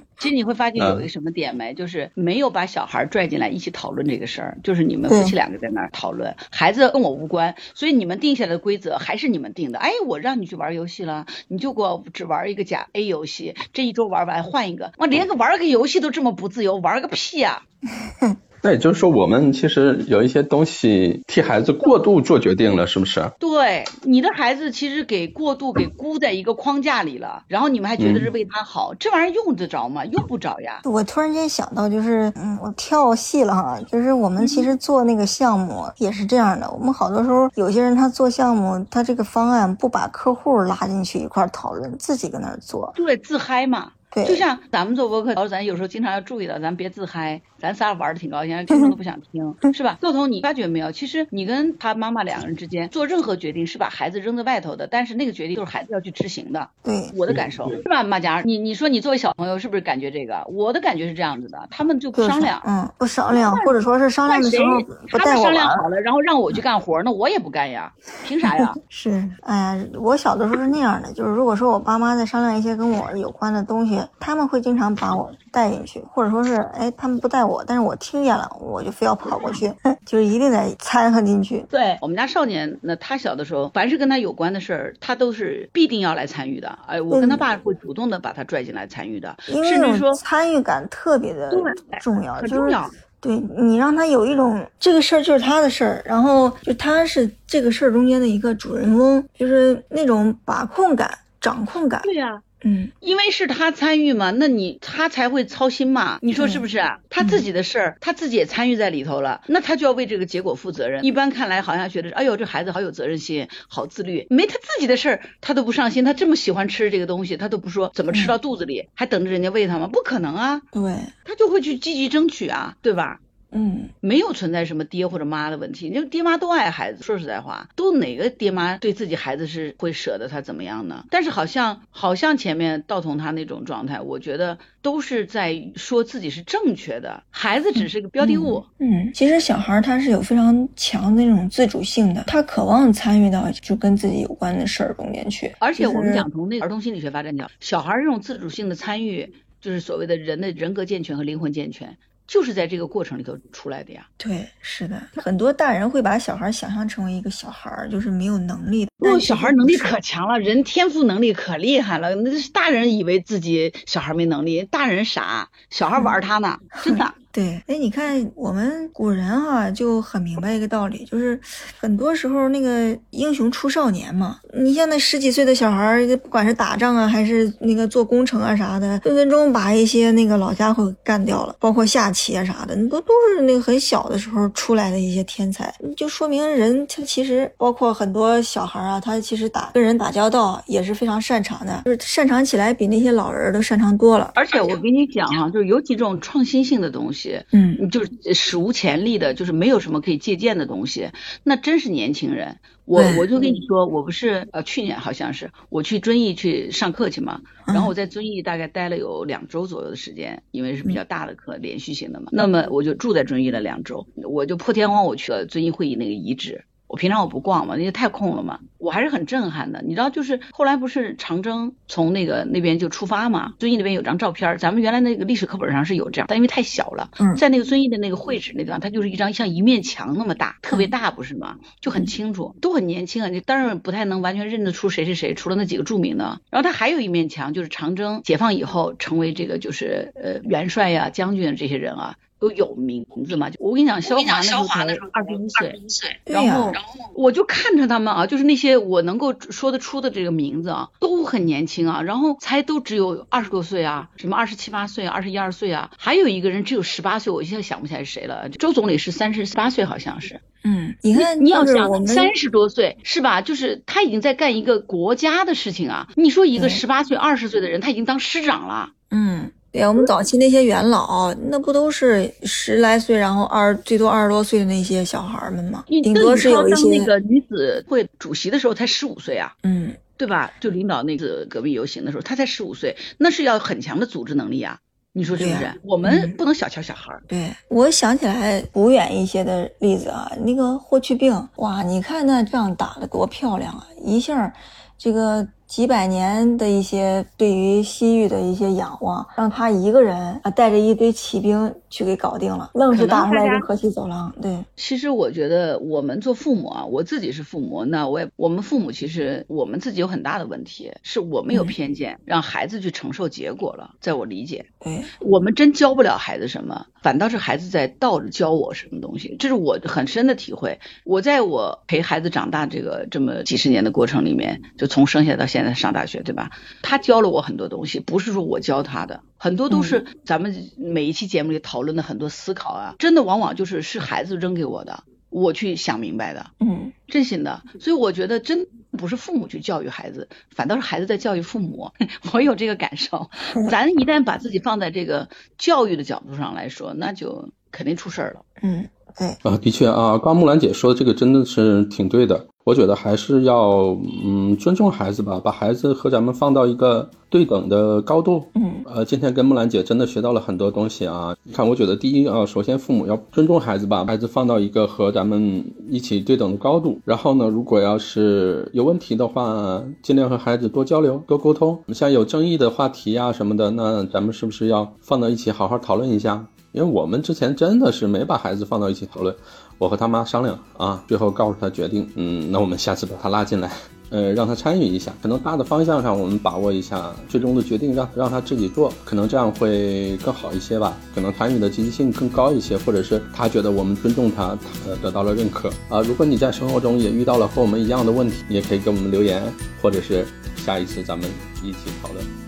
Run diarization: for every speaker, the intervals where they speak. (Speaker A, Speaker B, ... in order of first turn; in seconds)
Speaker A: 0.2-17.6, 23.4-30.8, 34.4-34.7, 43.0-62.7, 63.3-68.8, 81.7-90.2, 91.5-93.0, 102.0-102.4, 103.0-120.6, 121.2-123.2, 124.0-138.7, 145.6-154.1, 159.0-167.1, 194.3-260.4, 261.1-268.9, 275.9-279.5, 280.2-287.2, 302.9-303.6, 304.8-314.7, 315.2-336.5, 337.1-348.4
Speaker B: 0.8-1.1, 18.6-23.3, 28.0-28.3, 349.4-402.3
Speaker C: 5.1-5.3, 30.8-42.9, 44.1-44.4, 56.8-57.1, 62.1-65.8, 68.6-81.7, 87.1-87.5, 89.5-102.1, 102.6-102.9, 106.4-106.6, 120.7-121.1, 123.5-123.9, 138.2-146.2, 154.2-160.0, 166.8-194.3, 197.5-197.8, 202.9-203.3, 207.7-207.9, 246.3-246.8, 260.6-262.3, 266.6-266.8, 269.1-277.1, 279.6-280.0, 285.4-286.4, 287.3-304.7, 314.8-315.1, 329.7-330.0, 336.6-336.9, 348.6-349.4, 358.5-358.9